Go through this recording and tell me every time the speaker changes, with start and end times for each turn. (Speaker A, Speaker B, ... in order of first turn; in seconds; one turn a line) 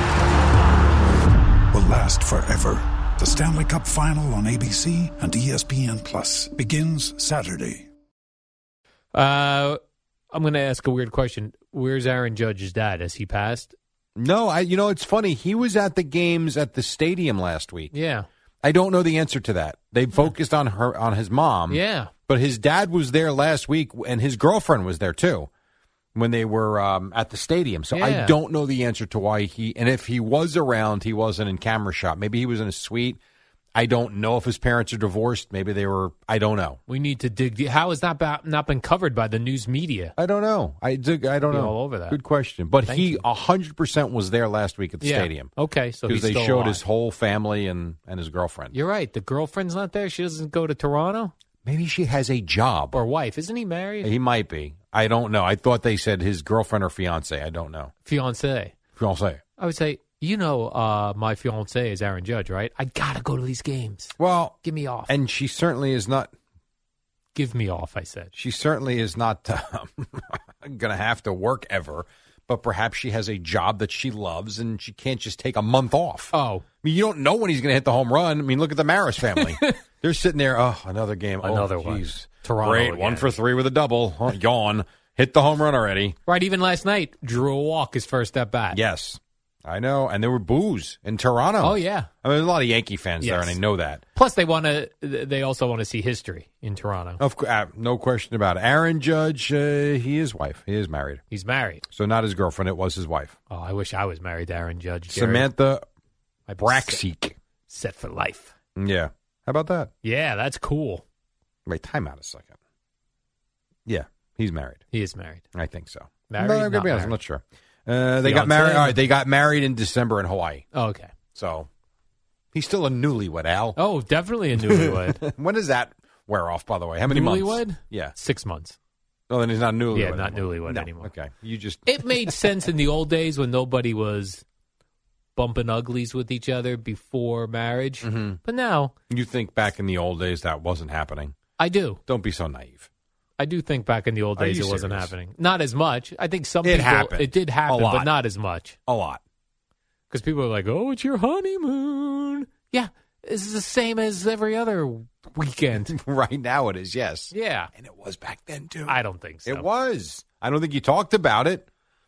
Speaker A: 1.7-7.9
Speaker B: 9.1-9.8
Speaker B: 10.3-13.7
Speaker C: 14.2-17.9
Speaker B: 17.9-18.3
Speaker C: 18.6-25.5
Speaker B: 21.7-22.1
Speaker C: 26.1-33.2
Speaker B: 27.9-28.4
Speaker C: 33.7-36.8
Speaker B: 36.9-40.1
Speaker C: 40.2-45.5
Speaker B: 41.5-42.2
Speaker B: 42.9-43.2
Speaker B: 45.0-46.8
Speaker C: 46.1-48.7
Speaker B: 48.7-51.3
Speaker C: 51.6-53.0
Speaker B: 52.9-54.1
Speaker C: 54.0-57.9
Speaker B: 58.0-58.7
Speaker C: 59.0-59.4
Speaker B: 59.6-65.1
Speaker C: 64.2-64.6
Speaker C: 65.1-66.3
Speaker B: 67.3-68.3
Speaker C: 68.3-86.2
Speaker B: 76.3-76.6
Speaker B: 79.3-79.8
Speaker B: 81.4-83.3
Speaker B: 86.2-88.8
Speaker C: 88.7-94.0
Speaker B: 91.6-92.1
Speaker B: 93.2-93.6
Speaker B: 94.1-97.2
Speaker C: 97.2-101.2
Speaker B: 101.3-101.8
Speaker C: 101.9-103.4
Speaker B: 103.5-105.5
Speaker C: 105.1-105.8
Speaker B: 106.5-107.0
Speaker C: 106.6-107.3
Speaker B: 107.7-108.5
Speaker C: 108.8-109.9
Speaker B: 110.0-111.0
Speaker C: 111.7-112.5
Speaker C: 113.8-114.8
Speaker B: 114.9-115.4
Speaker C: 115.5-120.6
Speaker B: 116.3-117.2
Speaker B: 118.2-119.0
Speaker B: 120.7-121.1
Speaker C: 121.3-121.7
Speaker C: 122.5-123.8
Speaker B: 123.8-125.2
Speaker C: 124.6-128.1
Speaker B: 127.1-128.8
Speaker C: 129.3-132.6
Speaker B: 129.9-131.1
Speaker B: 131.8-134.4
Speaker B: 135.3-138.9
Speaker C: 138.0-138.4
Speaker C: 139.1-141.3
Speaker B: 141.6-142.0
Speaker C: 142.1-142.9
Speaker B: 143.4-148.8
Speaker C: 144.4-145.1
Speaker C: 146.6-148.1
Speaker C: 148.9-149.2
Speaker B: 150.1-155.9
Speaker C: 155.8-161.7
Speaker B: 157.3-157.7
Speaker B: 158.9-159.7